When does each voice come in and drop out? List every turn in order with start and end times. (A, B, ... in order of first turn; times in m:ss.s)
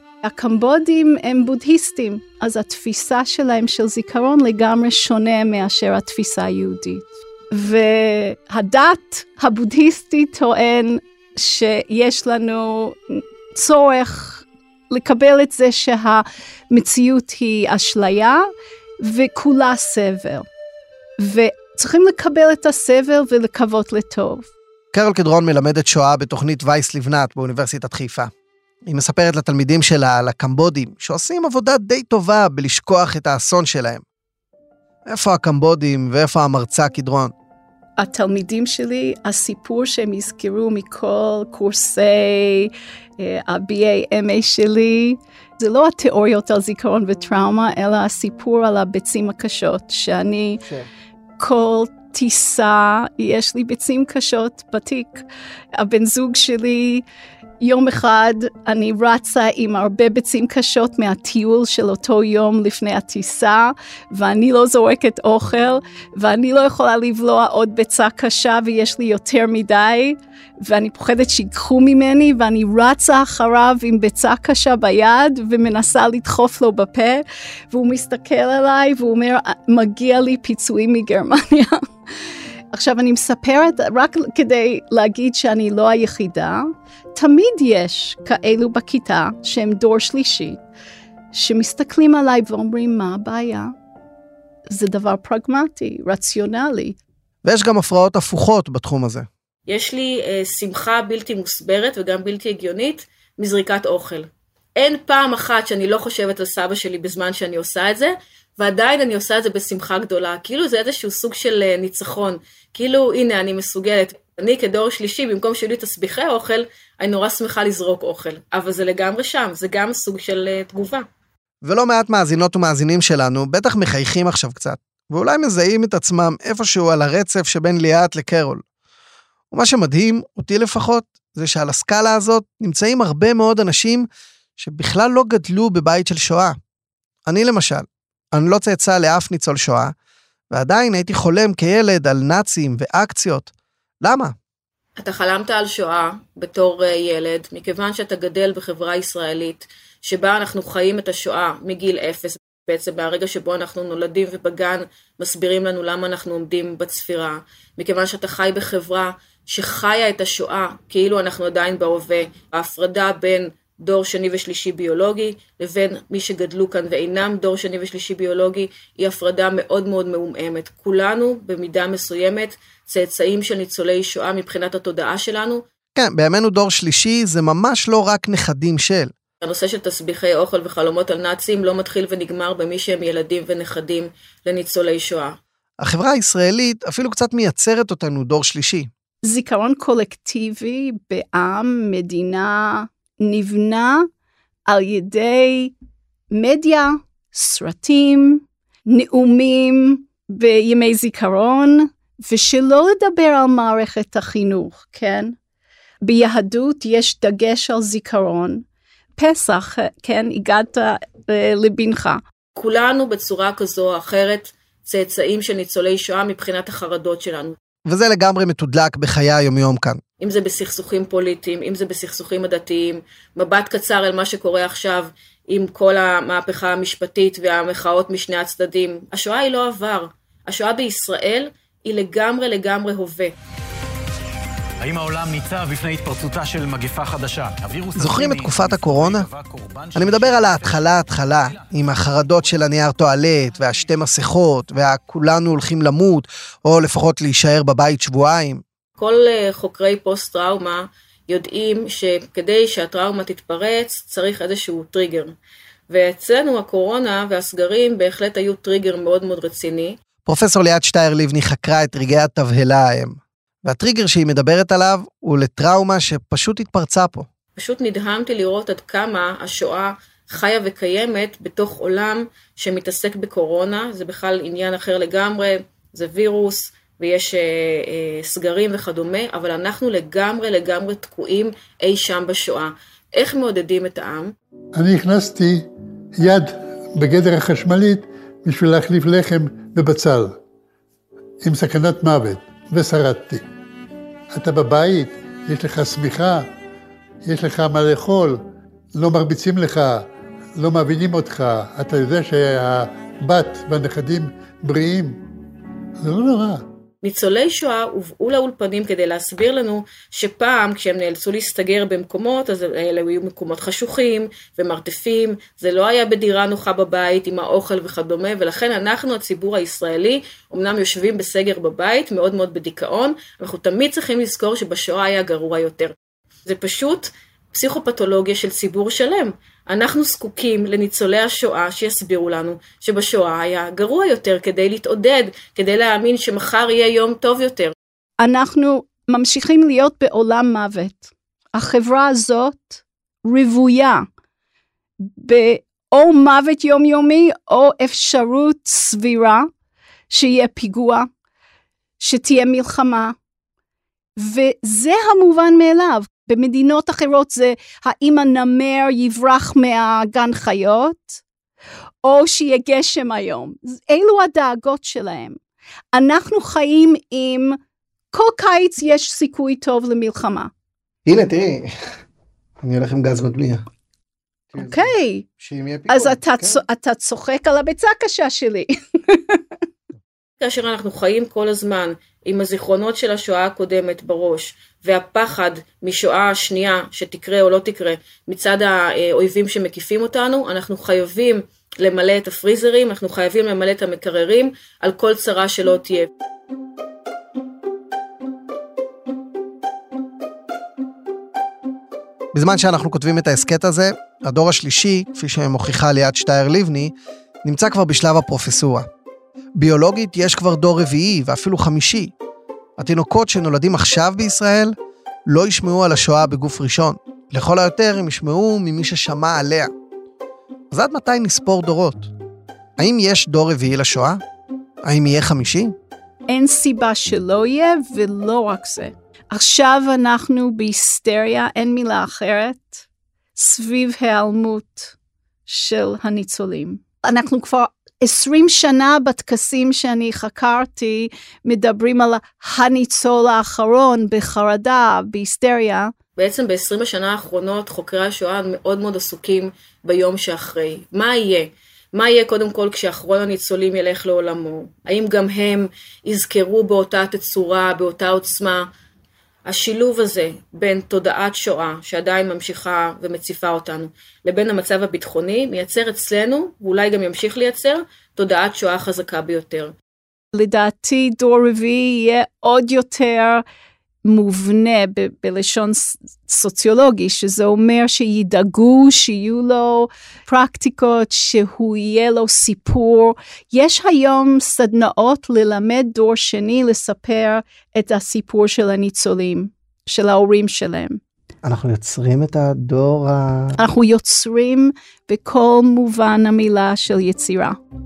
0:00.2-0:18.5 A
0:19.0-0:20.4 A
0:21.2-0:24.5 A
0:24.9-0:28.3 B
0:28.8-0:34.0 B
0:35.1-0:37.3 B
0:38.0-0:50.6 A
0:51.4-0:57.0 A
0:57.6-1:21.8 A
1:22.7-1:30.6 A
1:31.3-1:33.7 A
1:34.7-1:37.0 A
1:37.4-1:39.3 B
1:39.7-2:01.0 C
2:01.6-2:08.6 B
2:09.5-2:14.1 B
2:14.6-2:16.6 B
2:17.2-2:19.9 B
2:20.5-2:23.5 B
2:24.0-2:24.3 B
2:25.0-2:55.6 C
2:55.9-2:59.1 B
2:59.4-3:05.4 C
3:05.8-3:08.9 B
3:09.2-3:14.1 A
3:14.7-3:15.7 A
3:16.3-3:25.4 A
3:26.0-3:28.6 A
3:29.2-3:32.2 A
3:32.6-3:37.6 C
3:37.8-3:40.0 B
3:40.2-3:53.3 C
3:54.8-4:01.0 D
3:57.9-3:59.3 B
3:59.9-4:08.6 B
4:09.0-4:15.3 C
4:15.9-4:20.0 C
4:20.2-4:27.3 B
4:27.6-4:44.3 C
4:44.8-4:45.6 E
4:46.2-4:50.4 E
4:51.4-4:53.4 E
4:54.3-4:56.5 E
4:57.2-4:58.4 E
4:58.9-5:00.0 E
5:00.6-5:05.2 E
5:06.0-5:06.6 E
5:07.0-5:25.9 C
5:26.4-5:37.7 C
5:38.2-5:44.0 A
5:45.0-5:49.5 A
5:50.1-5:51.1 A
5:52.0-5:53.2 A
5:54.2-6:01.2 A
6:02.0-6:05.4 A
6:05.9-6:07.6 A
6:08.1-6:10.5 A
6:11.0-6:11.7 B
6:12.6-6:13.6 B
6:14.5-6:16.6 B
6:14.6-6:15.3 A
6:15.9-6:19.4 A
6:20.4-6:36.1 C
6:42.3-6:48.9 B
6:49.6-6:52.1 B
6:52.8-6:59.7 B
7:00.7-7:02.1 B
7:02.8-7:04.2 B
7:04.8-7:05.7 B
7:06.3-7:12.8 A
7:13.4-7:14.9 A
7:15.5-7:25.9 A
7:26.2-7:38.7 C
7:39.4-7:49.7 C
7:50.3-7:53.4 A
7:54.0-8:11.0 A
8:11.4-8:13.6 B
8:13.6-8:17.6 A